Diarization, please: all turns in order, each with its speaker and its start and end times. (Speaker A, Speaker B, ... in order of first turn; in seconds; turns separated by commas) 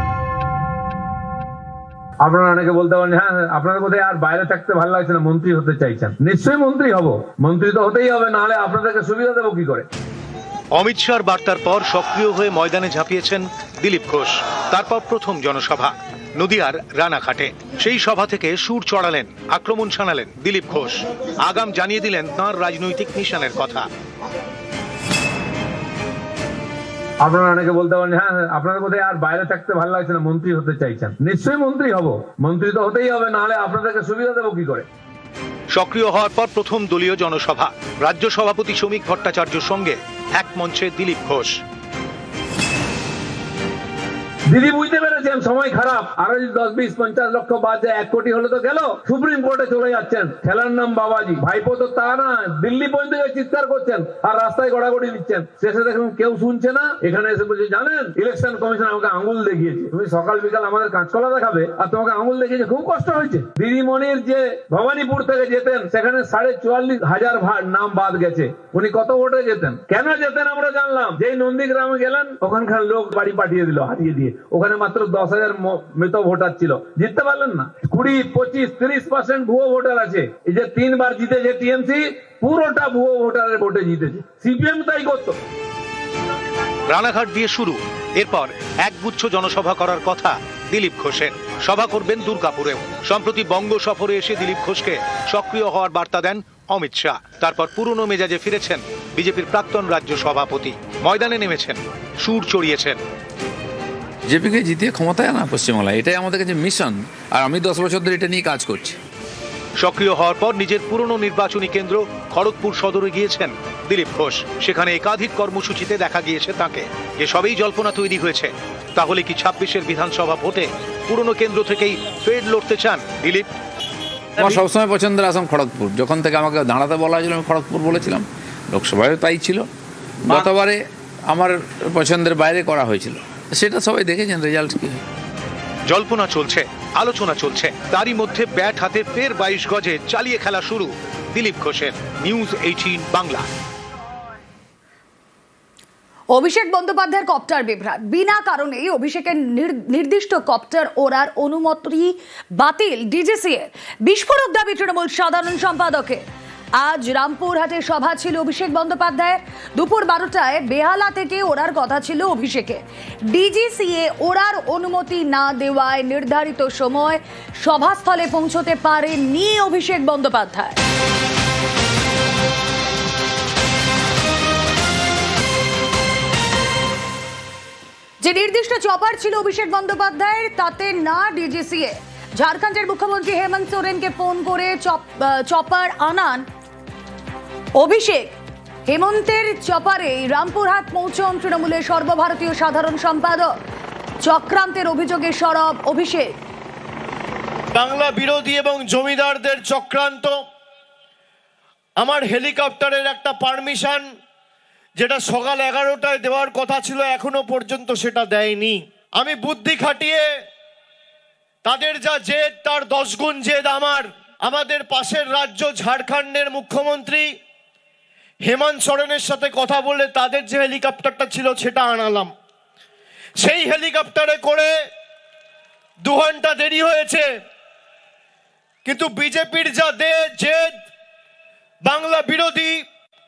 Speaker A: 2.2-9.9, Speaker B: 10.7-23.9, Speaker A: 27.2-34.9, Speaker B: 35.7-41.6, Speaker A: 44.5-85.3, Speaker B: 86.9-103.0, Speaker C: 104.3-109.0, Speaker B: 109.8-123.5, Speaker C: 124.4-129.7, Speaker C: 130.3-135.0, Speaker B: 135.9-143.4, Speaker D: 146.3-156.2, Speaker D: 156.8-170.8, Speaker D: 178.2-186.4, Speaker D: 187.8-188.3, Speaker D: 188.9-193.5, Speaker D: 194.2-196.3, Speaker E: 197.7-200.3, Speaker E: 202.0-204.0, Speaker E: 205.0-210.2, Speaker E: 211.6-217.3, Speaker E: 218.4-222.3, Speaker E: 223.4-224.7, Speaker E: 226.0-227.2, Speaker E: 228.8-230.8, Speaker E: 231.8-232.8